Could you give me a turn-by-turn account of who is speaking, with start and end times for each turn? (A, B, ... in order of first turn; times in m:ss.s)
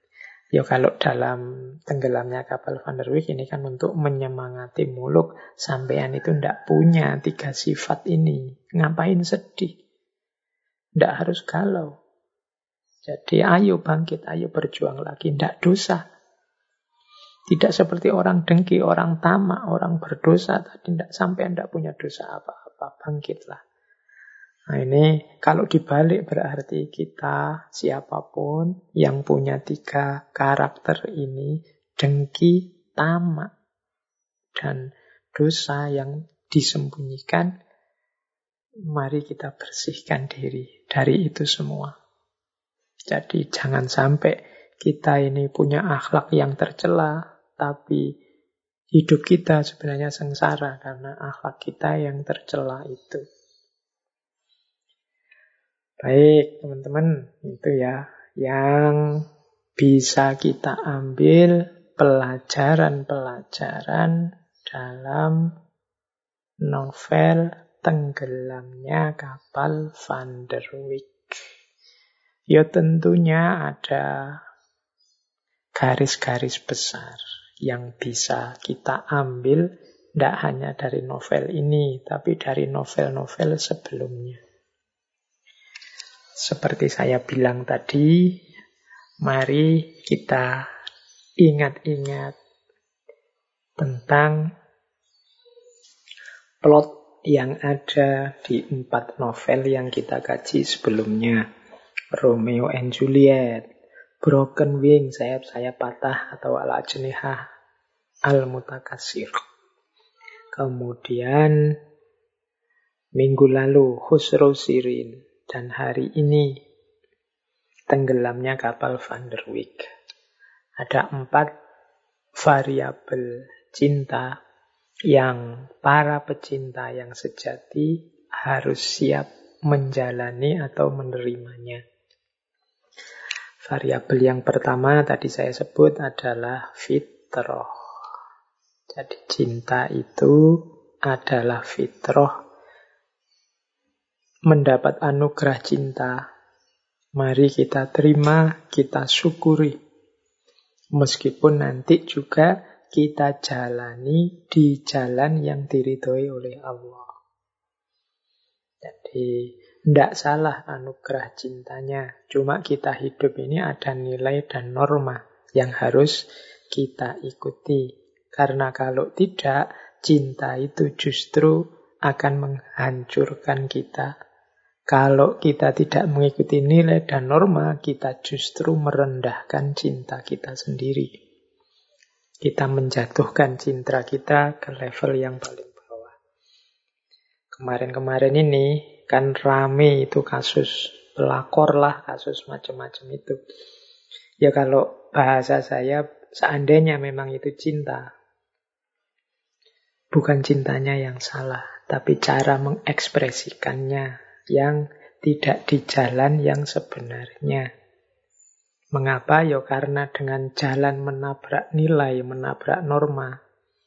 0:00.5-0:09.7 A
0:11.0-0:11.9 A
0:13.1-0:16.0 A
0:17.5-0:23.6 A
0:24.7-0:33.5 A
0:34.6-0:37.5 A
0:38.9-0:41.9 A
0:43.1-0:48.0 A
0:49.0-0:53.2 A
0:56.0-0:59.2 A
0:59.8-1:05.5 A
1:06.6-1:11.4 A
1:12.5-1:14.4 A
1:15.8-1:19.7 A
1:20.2-1:24.4 A
1:26.4-1:28.4 A
1:29.2-1:30.7 A
1:31.4-1:32.3 A
1:33.8-1:34.4 A
1:36.6-1:41.4 A
1:42.1-1:43.6 A
1:44.2-1:47.4 A
1:48.3-1:49.4 A
1:50.6-1:51.7 A
1:53.2-1:56.6 A
1:57.9-1:59.9 A
2:00.8-2:01.5 A
2:02.4-2:04.4 A
2:05.1-2:11.8 A
2:13.6-2:17.7 A
2:18.9-2:22.4 A
2:24.5-2:26.2 A
2:27.2-2:29.8 A
2:31.0-2:37.1 A
2:38.8-2:46.2 A
2:46.7-2:54.1 A
2:54.9-3:01.1 A
3:02.4-3:06.2 A
3:07.6-3:13.4 A
3:14.4-3:18.1 A
3:20.1-3:27.7 A
3:28.9-3:33.4 A